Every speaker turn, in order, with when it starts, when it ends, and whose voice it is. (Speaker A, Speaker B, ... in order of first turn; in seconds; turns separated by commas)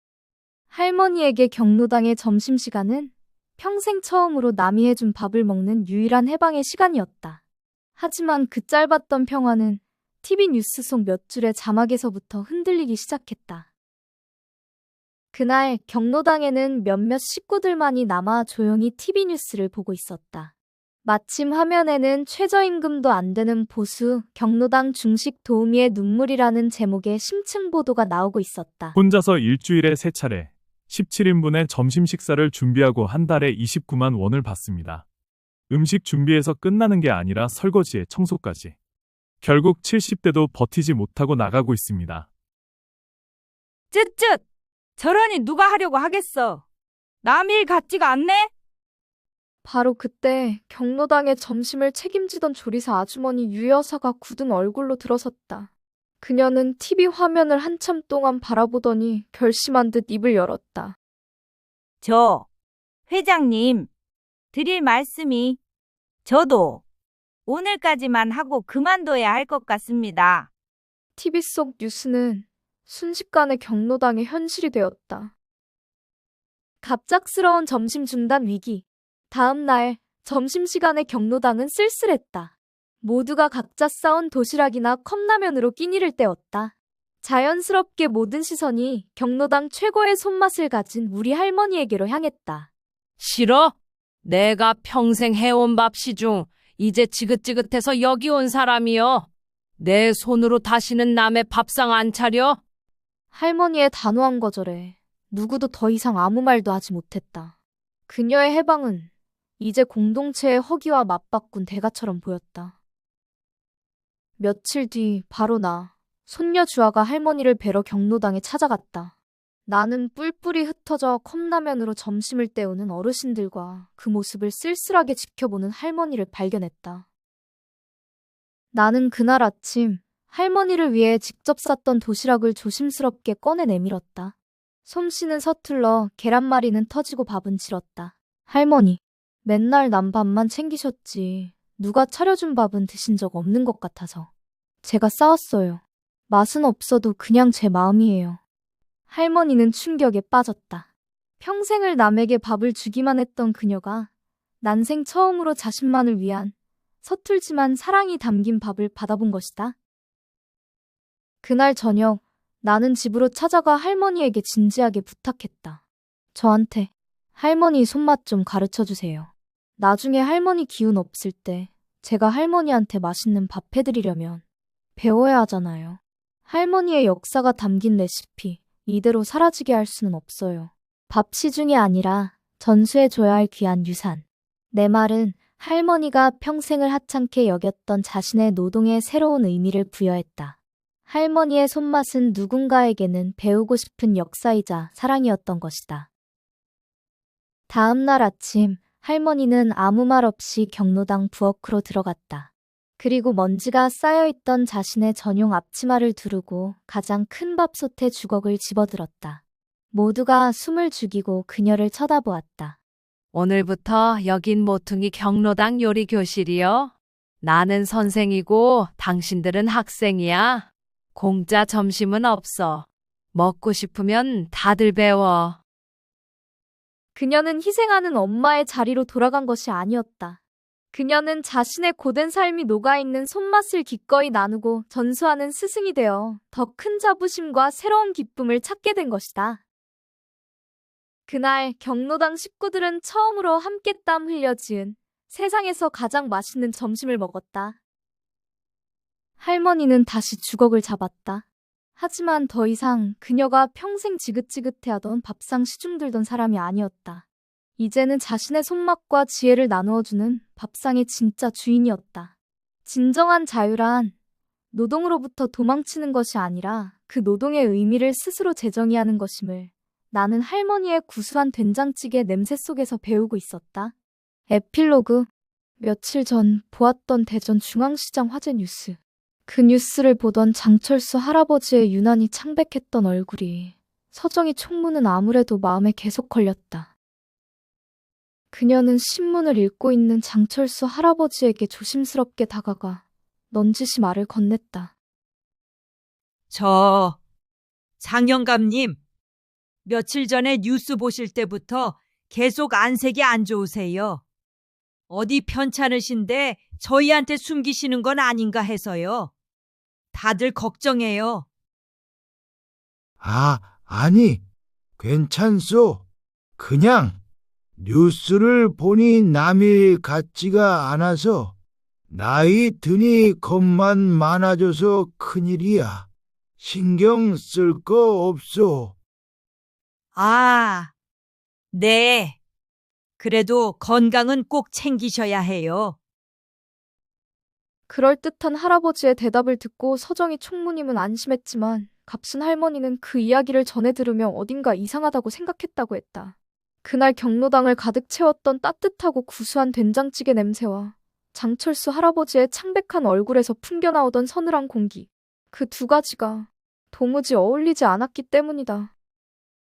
Speaker A: 0.7-7.4, Speaker A: 8.0-13.7, Speaker A: 15.3-20.5, Speaker A: 21.0-29.0, Speaker B: 28.9-35.1, Speaker B: 35.7-38.8, Speaker B: 39.4-42.3, Speaker C: 43.9-44.4, Speaker C: 45.0-46.6, Speaker C: 47.2-48.5, Speaker A: 49.6-55.7, Speaker A: 56.2-61.0, Speaker C: 62.0-62.5, Speaker C: 63.1-63.9, Speaker C: 64.5-65.6, Speaker C: 66.3-66.8, Speaker C: 67.5-70.5, Speaker A: 71.2-75.3, Speaker A: 76.8-92.7, Speaker D: 93.2-102.6, Speaker A: 103.3-107.5, Speaker A: 108.1-112.7, Speaker A: 114.4-119.1, Speaker A: 119.7-127.0, Speaker A: 128.7-134.3, Speaker A: 134.9-144.3, Speaker A: 144.8-148.4, Speaker A: 149.1-150.9, Speaker A: 151.4-154.1, Speaker A: 154.6-159.8, Speaker A: 161.4-165.8, Speaker A: 166.3-174.4, Speaker A: 175.0-190.6, Speaker A: 191.1-196.1, Speaker A: 197.7-212.8, Speaker D: 213.3-225.6, Speaker A: 227.2-230.4, Speaker A: 230.9-239.6, Speaker A: 241.3-247.8, Speaker A: 249.4-251.4, Speaker A: 252.0-257.2, Speaker A: 257.8-262.3, Speaker A: 262.9-264.1, Speaker A: 264.7-273.9, Speaker A: 274.5-275.3, Speaker A: 275.8-286.9, Speaker A: 288.5-294.9, Speaker E: 296.5-297.2, Speaker E: 298.0-299.0, Speaker E: 299.9-304.2, Speaker E: 305.1-309.3, Speaker E: 310.1-311.5, Speaker F: 313.2-314.4, Speaker F: 315.0-316.1, Speaker F: 316.6-317.2, Speaker F: 317.8-321.6, Speaker F: 322.1-329.0, Speaker E: 330.1-330.9, Speaker E: 331.7-332.4, Speaker E: 333.2-336.0, Speaker A: 337.9-358.9